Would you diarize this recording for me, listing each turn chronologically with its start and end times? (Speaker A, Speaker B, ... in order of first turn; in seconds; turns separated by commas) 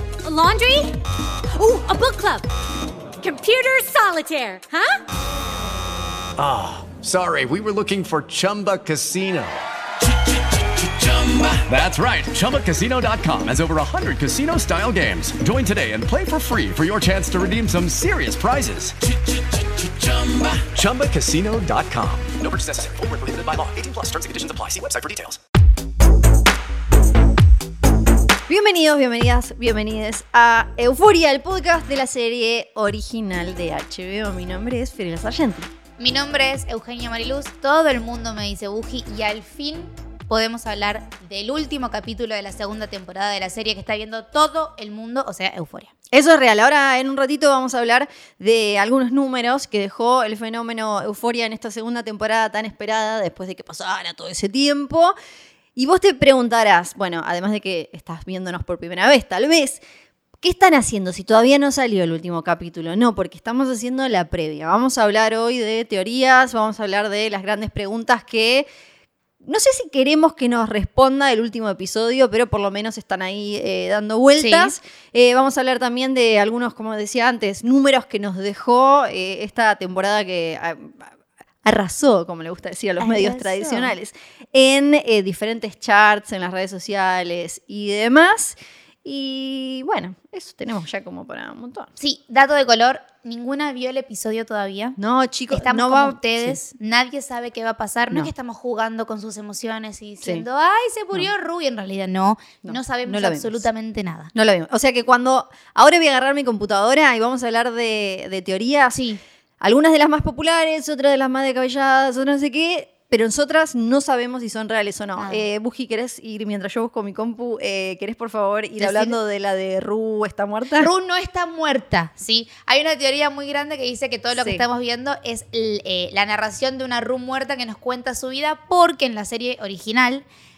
Speaker A: 0.2-1.0, Speaker A: 1.5-2.5, Speaker A: 3.2-5.0, Speaker B: 6.4-9.6, Speaker B: 10.8-19.0, Speaker B: 19.8-25.4, Speaker C: 28.5-35.7, Speaker D: 36.0-45.9, Speaker C: 46.1-55.1, Speaker C: 55.8-59.8, Speaker C: 60.4-68.7, Speaker C: 69.4-81.1, Speaker D: 74.4-74.8, Speaker C: 81.6-91.9, Speaker D: 83.0-83.9, Speaker D: 92.0-95.0, Speaker C: 95.0-96.6, Speaker D: 95.5-104.3, Speaker C: 102.6-103.7, Speaker C: 104.3-109.0, Speaker D: 108.9-109.2, Speaker C: 109.6-120.9, Speaker D: 115.2-115.5, Speaker D: 118.8-119.2, Speaker D: 120.8-130.2, Speaker C: 124.3-124.7